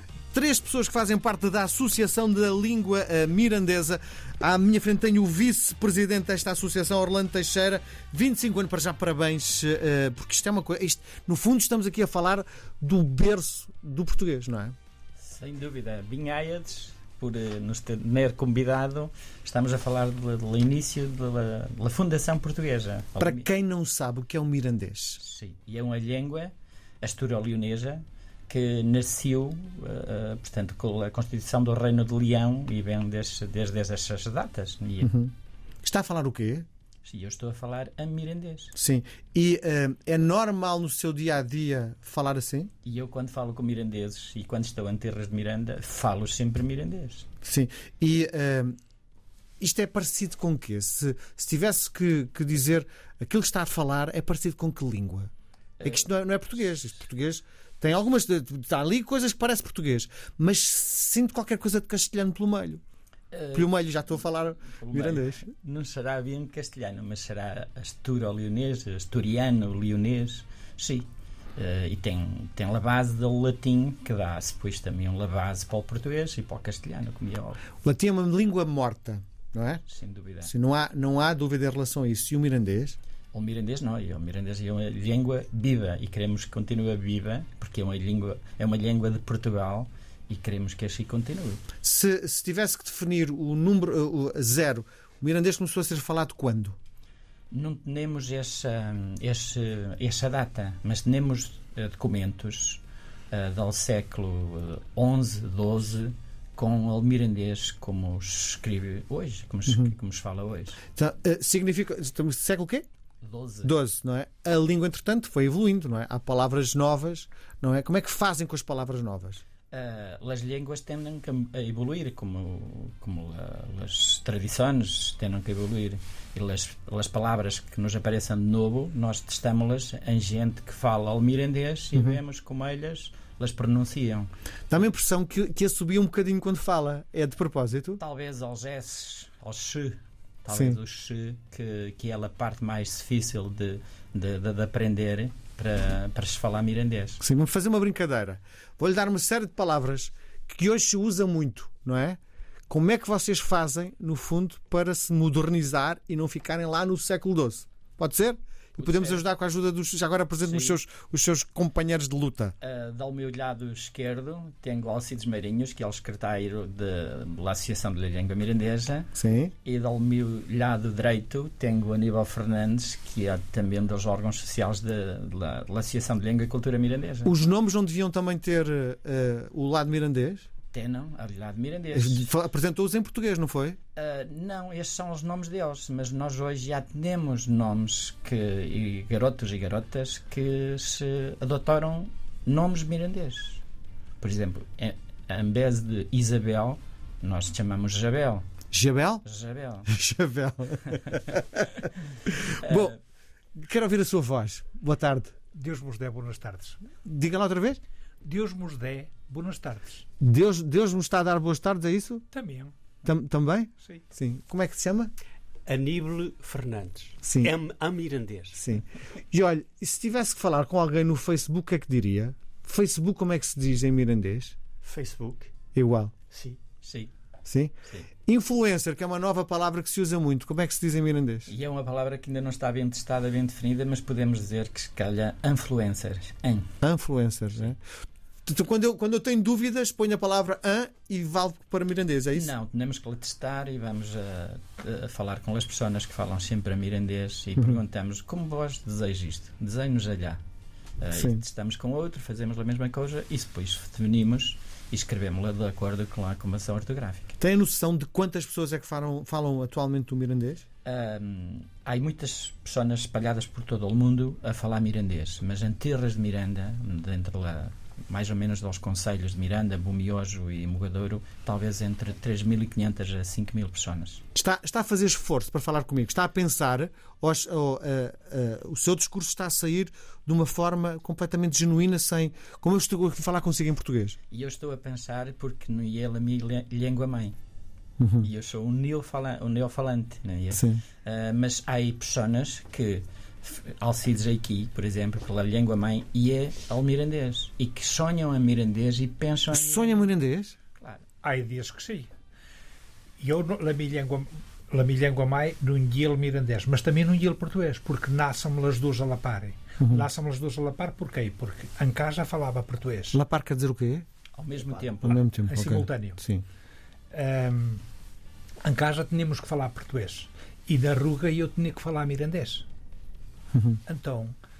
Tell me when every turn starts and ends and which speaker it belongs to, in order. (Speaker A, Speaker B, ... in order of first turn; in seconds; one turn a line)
Speaker A: 0.3-14.8
Speaker B: 15.2-23.5
Speaker A: 23.2-25.2
Speaker B: 25.2-35.1
Speaker A: 35.0-35.3
Speaker A: 35.8-36.7
Speaker B: 37.0-38.7
Speaker A: 38.8-42.7
Speaker B: 42.8-47.3
Speaker A: 47.4-48.8
Speaker A: 49.6-62.8
Speaker B: 55.8-56.1
Speaker B: 63.3-64.2
Speaker A: 63.5-65.5
Speaker B: 64.7-77.6
Speaker A: 77.8-79.8
Speaker B: 79.9-80.5
Speaker A: 80.4-83.0
Speaker B: 83.3-91.6
Speaker A: 91.8-96.8
Speaker B: 97.5-110.8
Speaker A: 109.7-109.9
Speaker A: 111.0-112.9
Speaker B: 113.2-113.7
Speaker A: 113.6-119.4
Speaker B: 119.7-134.3
Speaker A: 131.9-132.2
Speaker A: 134.7-138.0
Speaker B: 138.0-147.2
Speaker A: 140.5-140.8
Speaker A: 147.2-162.6
Speaker B: 158.8-159.2
Speaker B: 160.4-160.8
Speaker B: 162.6-169.1
Speaker A: 169.2-169.5
Speaker B: 169.6-177.4
Speaker A: 177.2-180.5
Speaker B: 180.7-182.3
Speaker A: 181.9-183.8
Speaker B: 184.0-193.6
Speaker B: 194.2-198.5
Speaker A: 198.7-199.2
Speaker B: 199.2-199.9
Speaker A: 199.9-203.0
Speaker B: 202.6-202.9
Speaker A: 203.6-205.3
Speaker C: 205.5-206.8
Speaker A: 207.0-207.8
Speaker C: 208.2-210.1
Speaker A: 210.2-212.2
Speaker C: 212.3-212.7
Speaker A: 213.1-215.1
Speaker D: 215.7-218.6
Speaker A: 217.2-217.6
Speaker A: 218.6-224.6
Speaker D: 224.8-225.5
Speaker A: 225.7-226.1
Speaker D: 226.3-226.6
Speaker B: 226.8-227.1
Speaker A: 227.5-227.7
Speaker A: 228.3-231.5
Speaker B: 231.5-236.7
Speaker A: 236.8-237.8
Speaker A: 238.4-242.5
Speaker B: 242.3-250.4
Speaker B: 251.0-257.4
Speaker A: 251.1-251.4
Speaker A: 257.4-260.6
Speaker B: 260.9-274.2
Speaker A: 274.4-284.2
Speaker B: 284.3-287.4
Speaker A: 288.0-288.3
Speaker B: 288.2-300.1
Speaker A: 290.5-290.8
Speaker A: 299.5-300.6
Speaker B: 300.8-301.0
Speaker C: 301.2-302.1
Speaker C: 303.2-313.2
Speaker A: 309.8-310.1
Speaker A: 313.1-314.1
Speaker B: 314.3-315.3
Speaker A: 314.9-316.4
Speaker C: 315.5-316.2
Speaker C: 317.1-317.8
Speaker C: 318.6-322.7
Speaker A: 323.5-323.8
Speaker C: 323.9-324.3